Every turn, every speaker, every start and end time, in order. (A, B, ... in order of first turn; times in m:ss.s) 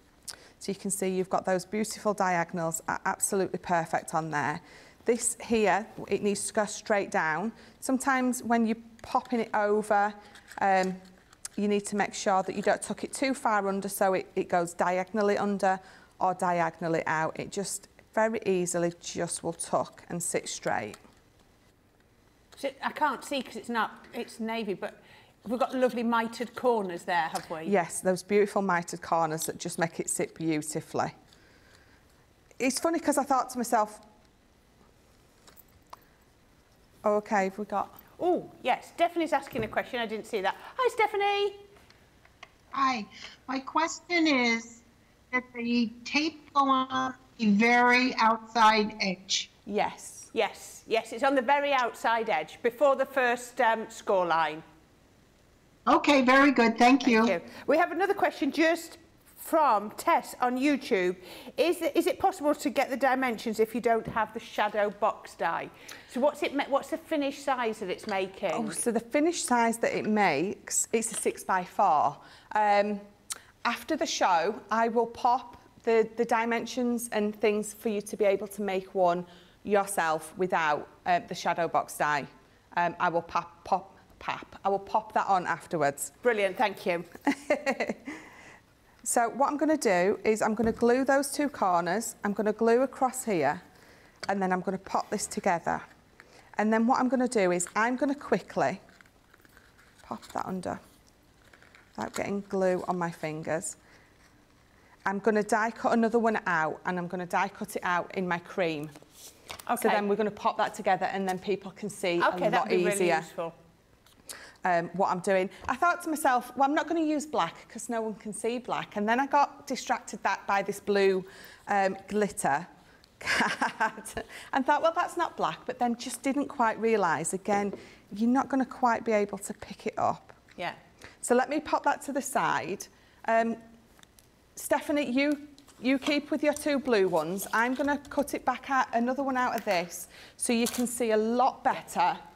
0:00.6-0:11.0 A
0:11.6-0:21.0 A
0:22.6-0:27.7 B
0:27.6-0:31.1 A
0:32.6-0:34.0 A
0:37.0-0:38.0 A
0:38.2-0:41.6 B
0:42.7-0:44.8 C
0:45.3-0:49.5 C
0:49.7-0:50.3 A
0:50.3-0:54.6 B
0:55.9-0:57.3 C
0:57.0-1:08.8 B
1:08.5-1:13.1 A
1:13.6-1:26.1 A
1:26.2-1:27.1 B
1:27.2-1:28.2 A
1:29.0-1:33.6 A
1:34.3-1:35.8 A
1:36.6-1:38.8 A
1:40.0-1:40.8 A
1:41.9-1:43.8 A
1:45.0-1:48.9 A
1:49.7-1:50.0 B
1:49.8-1:53.3 A
1:52.2-1:53.5 B
1:54.6-2:10.4 A
2:11.2-2:13.6 A
2:14.6-2:22.2 A